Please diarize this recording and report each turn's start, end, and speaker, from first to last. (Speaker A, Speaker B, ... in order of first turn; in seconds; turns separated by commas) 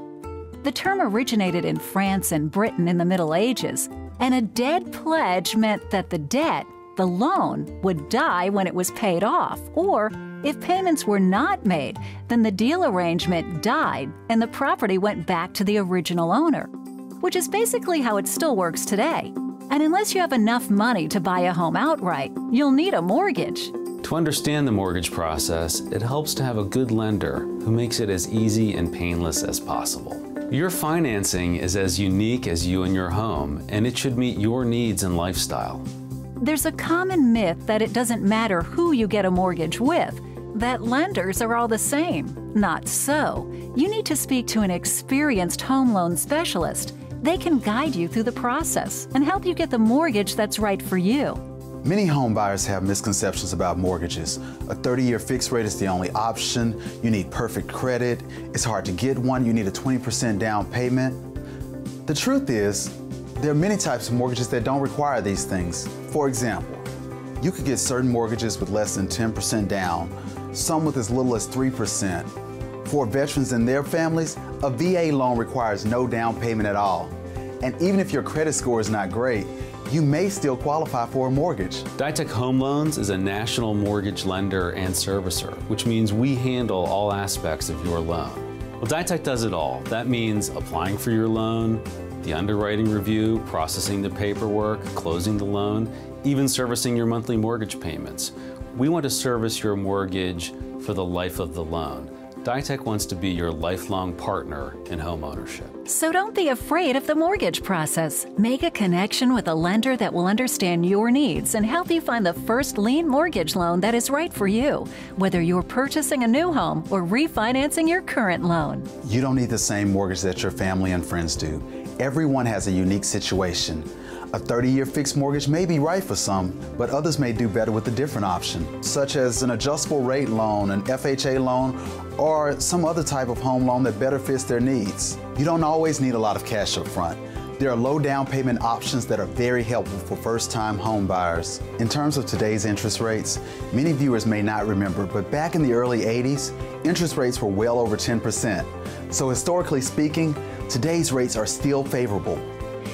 Speaker A: 0.6-23.7, Speaker B: 24.0-35.9, Speaker A: 36.4-51.4, Speaker C: 51.8-61.2, Speaker C: 62.0-66.9, Speaker C: 67.4-72.3, Speaker C: 72.8-81.9, Speaker B: 82.0-105.8, Speaker A: 105.8-118.9, Speaker C: 119.0-152.4